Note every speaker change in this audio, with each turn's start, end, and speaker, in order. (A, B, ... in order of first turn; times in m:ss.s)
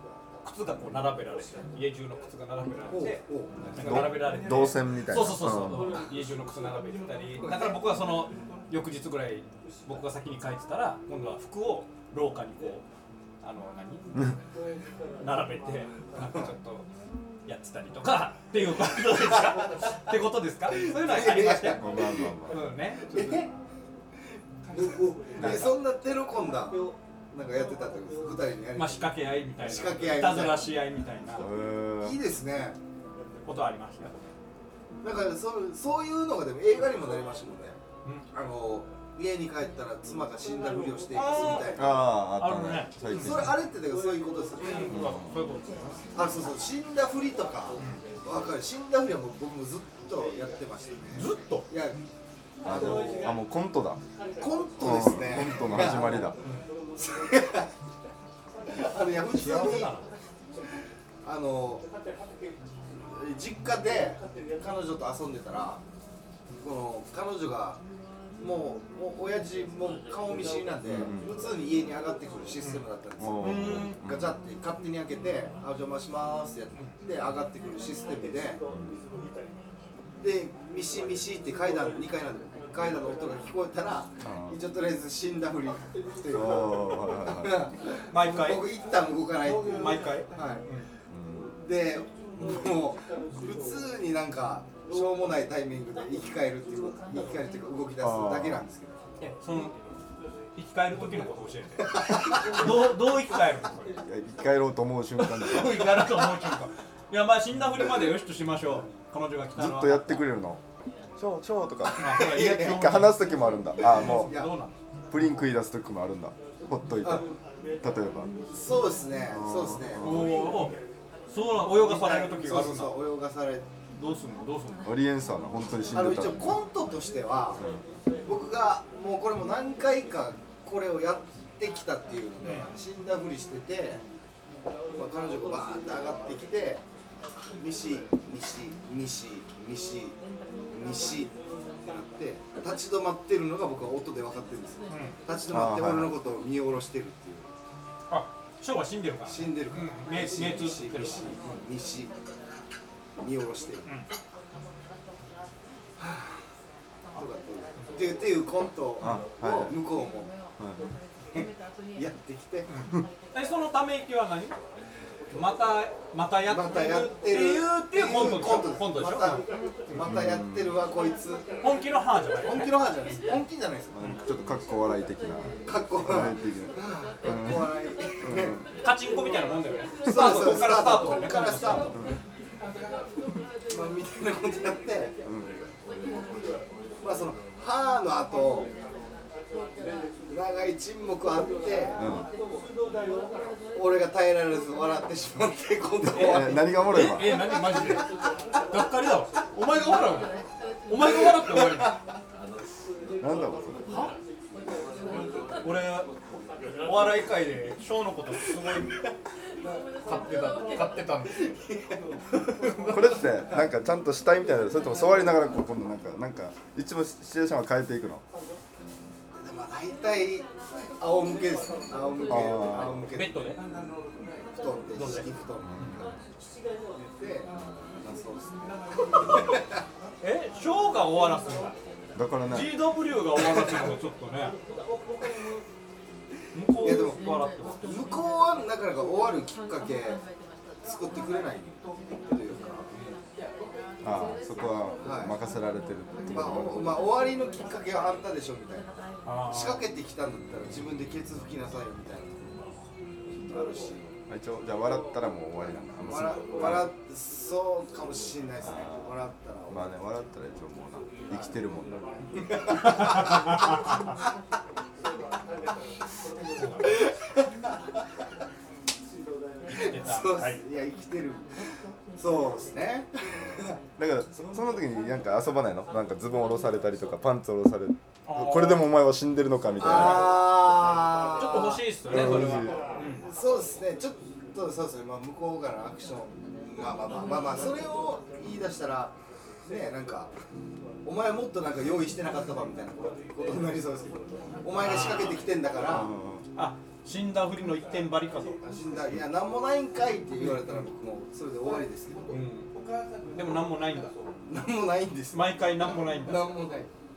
0:00.4-0:12.8 A
0:02.9-0:03.6 B
0:03.7-0:06.0 C
0:07.4-0:07.8 B
0:13.4-0:14.3 A
0:15.2-0:16.9 A
0:17.5-0:23.5 A
0:20.8-0:23.5 B
0:21.6-0:22.6 C
0:24.7-0:30.7 B
0:25.4-0:25.8 A
0:25.4-0:25.7 C
0:28.8-0:31.5 A
0:31.4-0:32.2 C
0:32.0-0:32.8 B
0:33.5-0:34.2 A
0:35.0-0:37.8 B
0:38.3-0:42.1 B
0:41.1-0:43.6 A
0:41.7-0:43.6 C
0:43.1-0:45.0 B
0:44.6-0:46.0 A
0:44.9-0:45.4 C
0:46.2-0:52.0 B
0:51.2-0:51.7 A
0:52.6-0:54.0 C
0:52.7-0:53.2 B
0:54.4-0:56.4 B
0:54.8-0:56.4 C
0:57.0-0:57.7 B
0:58.7-1:00.0 B
0:59.3-1:00.1 A
1:01.2-1:01.8 B
1:03.1-1:05.8 B
1:06.6-1:07.8 B
1:08.4-1:18.6 B
1:10.8-1:11.3 C
1:13.2-1:14.4 C
1:13.4-1:14.0 A
1:18.7-1:19.0 C
1:20.2-1:30.6 B
1:24.2-1:24.6 C
1:26.3-1:27.7 C
1:28.1-1:28.6 A
1:29.7-1:30.9 A
1:31.1-1:31.5 C
1:31.6-1:39.0 B
1:38.0-1:38.6 C
1:39.2-1:39.8 A
1:40.6-1:44.0 A
1:41.9-1:42.7 B
1:44.0-1:46.0 C
1:45.2-1:50.3 A
1:49.6-1:50.6 C
1:51.2-1:54.4 C
1:52.0-1:52.9 B
1:52.0-1:54.8 A
1:53.8-1:54.5 B
1:55.1-1:57.3 C
1:57.8-1:58.3 C
1:58.5-2:00.3 B
1:59.3-2:00.5 C
2:00.0-2:00.8 A
2:01.3-2:03.0 A
2:01.7-2:03.7 B
2:03.9-2:04.9 A
2:04.8-2:06.6 C
2:05.9-2:07.6 B
2:08.3-2:14.0 B
2:12.4-2:12.7 A
2:15.0-2:16.8 B
2:17.6-2:20.2 B
2:20.7-2:27.5 B
2:24.9-2:25.2 A
2:25.5-2:26.1 C
2:28.1-2:31.4 A
2:29.3-2:32.1 B
2:33.2-2:33.9 B
2:36.0-2:36.4 B
2:37.1-2:40.3 B
2:39.0-2:39.8 C
2:40.6-2:40.8 C
2:41.3-2:42.7 B
2:42.7-2:44.6 A
2:45.3-2:49.4 A
2:46.5-2:51.5 B
2:49.9-2:50.8 C
2:51.6-2:52.8 A
2:52.4-2:54.0 B
2:54.0-2:58.6 C
2:55.7-2:58.6 B
2:58.8-3:01.9 A
3:00.0-3:02.0 B
3:03.7-3:05.2 B
3:07.0-3:08.7 B
3:10.3-3:12.1 B
3:12.0-3:12.3 C
3:13.7-3:18.2 B
3:16.1-3:17.4 C
3:16.1-3:22.0 A
3:21.0-3:22.0 B
3:23.2-3:24.0 C
3:25.6-3:26.1 A
3:26.8-3:29.0 A
3:30.0-3:31.6 A
3:31.4-3:32.0 B
3:32.6-3:33.0 A
3:32.9-3:38.2 C
3:39.4-3:40.5 B
3:41.0-3:43.4 B
3:42.3-3:43.0 C
3:43.1-3:43.6 A
3:44.6-3:46.1 B
3:45.0-3:46.0 A
3:45.6-3:46.1 C
3:47.2-3:49.8 B
3:50.2-3:51.7 A
3:52.2-3:52.8 C
3:52.4-3:54.6 A
3:53.6-3:53.9 B
3:56.5-3:58.1 A
3:56.8-3:57.3 B
3:57.8-4:00.2 B
4:00.8-4:03.0 B
4:04.0-4:06.9 C
4:05.0-4:05.4 B
4:06.3-4:08.9 B
4:09.2-4:09.9 A
4:09.5-4:12.6 B
4:13.5-4:14.1 B
4:14.3-4:16.9 C
4:16.1-4:19.9 B
4:18.6-4:19.1 C
4:19.7-4:22.1 C
4:22.4-4:23.7 B
4:22.8-4:23.6 A
4:26.6-4:26.9 A
4:26.8-4:27.8 B
4:29.7-4:30.6 A
4:29.7-4:31.5 B
4:32.2-4:33.8 B
4:34.0-4:40.5 C
4:38.3-4:38.9 A
4:39.8-4:50.3 B
4:39.9-4:40.3 A
4:41.3-4:43.3 A
4:42.1-4:42.8 C
4:51.0-4:56.1 B
4:54.8-4:55.4 A
4:55.8-4:56.4 C
4:56.6-4:58.6 A
4:58.6-5:02.4 B
5:00.4-5:00.8 A
5:02.3-5:02.7 A
5:03.3-5:04.1 A
5:04.5-5:06.9 B
5:05.3-5:06.5 A